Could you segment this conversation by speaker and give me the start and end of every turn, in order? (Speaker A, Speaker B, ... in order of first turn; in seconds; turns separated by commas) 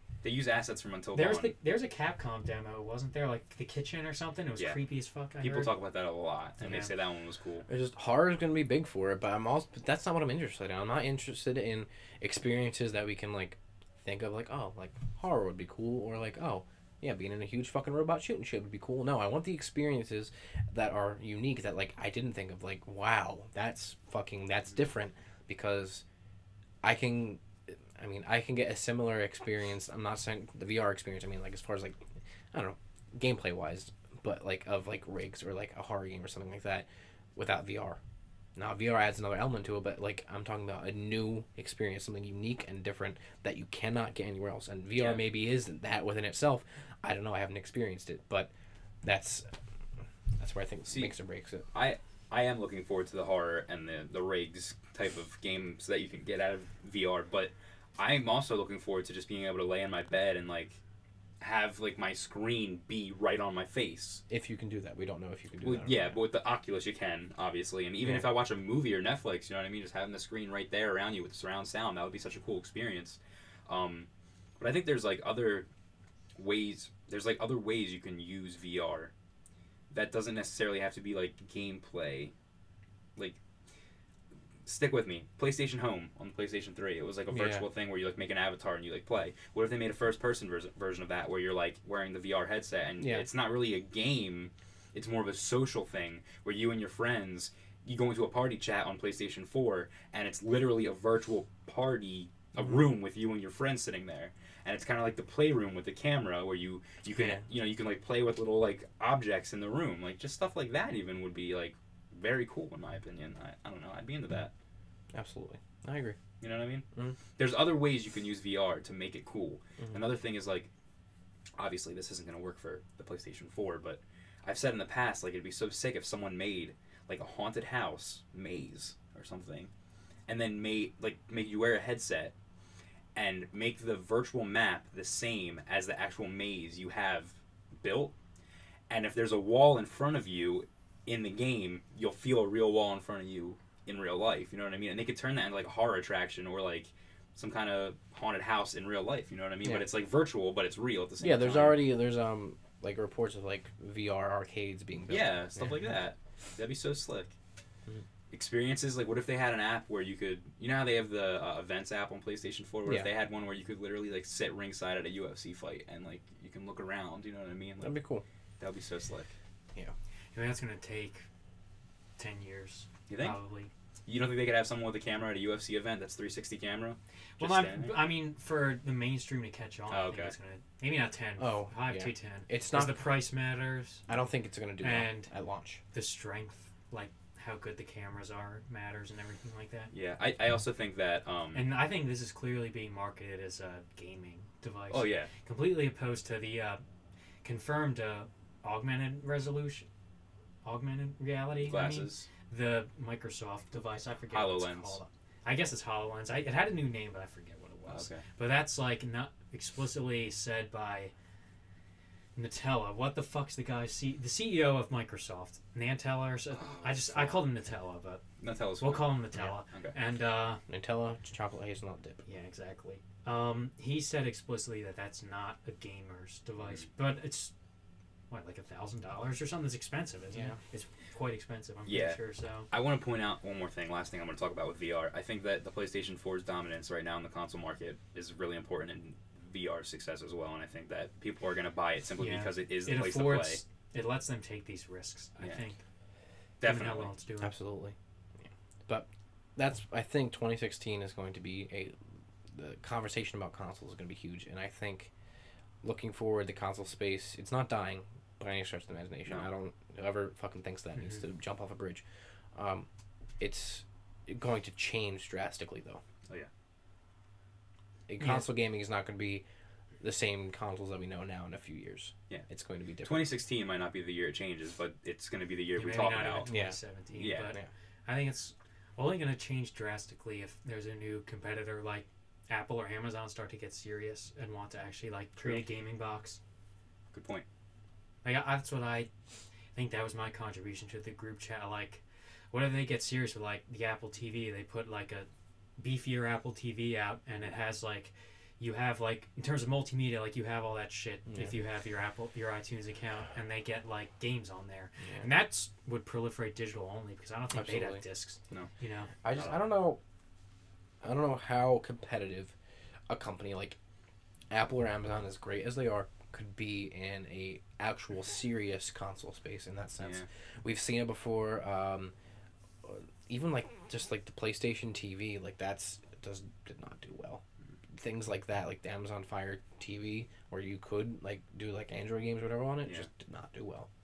Speaker A: 0.2-1.6, Speaker B: 1.1-5.7, Speaker A: 5.4-7.7, Speaker B: 6.6-7.0, Speaker C: 7.7-26.0, Speaker C: 26.8-38.0, Speaker C: 38.6-48.5, Speaker A: 45.0-45.3, Speaker C: 49.0-49.5, Speaker C: 50.4-51.7, Speaker A: 50.9-51.1, Speaker A: 51.7-60.8, Speaker A: 61.4-64.2, Speaker C: 64.3-66.2, Speaker A: 65.6-74.1, Speaker C: 68.0-68.3, Speaker A: 74.6-75.7, Speaker A: 76.4-79.1, Speaker A: 79.9-82.3, Speaker A: 84.7-114.5, Speaker C: 87.3-87.7, Speaker C: 93.0-93.3, Speaker C: 102.6-102.8, Speaker C: 107.2-107.4, Speaker C: 115.1-116.2, Speaker A: 116.4-116.8, Speaker A: 117.4-120.7, Speaker A: 121.6-129.7, Speaker A: 130.3-132.3, Speaker A: 133.2-138.1, Speaker A: 138.9-151.9, Speaker C: 149.6-149.9, Speaker C: 151.2-155.8, Speaker A: 155.1-157.3, Speaker A: 158.3-168.0, Speaker C: 162.9-163.1, Speaker C: 167.8-168.2, Speaker A: 168.6-169.3, Speaker B: 170.3-171.3, Speaker B: 172.2-173.7, Speaker A: 173.1-173.4, Speaker A: 174.1-178.1, Speaker B: 177.4-184.0, Speaker A: 179.9-180.3, Speaker C: 181.4-183.2, Speaker C: 184.1-185.8, Speaker B: 184.8-185.3, Speaker B: 185.9-189.9, Speaker A: 189.9-191.7, Speaker B: 191.5-196.8, Speaker A: 194.9-195.3, Speaker B: 197.4-199.9, Speaker B: 200.6-211.1, Speaker A: 201.6-202.3, Speaker A: 204.3-205.0, Speaker A: 207.9-208.2, Speaker B: 212.3-218.2, Speaker A: 216.5-217.5, Speaker A: 218.4-219.9, Speaker B: 218.8-220.6, Speaker C: 220.7-222.2, Speaker B: 222.3-227.5, Speaker B: 228.3-232.7, Speaker A: 231.9-243.6, Speaker B: 242.2-245.8, Speaker A: 245.4-245.7, Speaker A: 246.6-247.1, Speaker B: 246.6-247.6, Speaker C: 247.4-251.9, Speaker C: 252.5-255.1, Speaker C: 255.8-262.0, Speaker B: 261.0-261.2, Speaker C: 262.6-262.9, Speaker C: 263.4-266.0, Speaker C: 268.1-269.4, Speaker B: 268.2-268.4, Speaker C: 270.0-273.3, Speaker A: 273.0-276.5, Speaker B: 275.8-286.4, Speaker C: 276.5-276.8, Speaker A: 277.2-277.6, Speaker A: 287.1-287.5, Speaker B: 288.2-289.1, Speaker B: 289.8-309.1, Speaker C: 301.3-301.6, Speaker C: 307.5-308.0, Speaker C: 309.2-310.0, Speaker C: 311.0-312.5, Speaker C: 313.1-313.8, Speaker C: 314.5-322.1, Speaker A: 320.0-320.3, Speaker C: 322.8-327.4, Speaker C: 327.9-333.9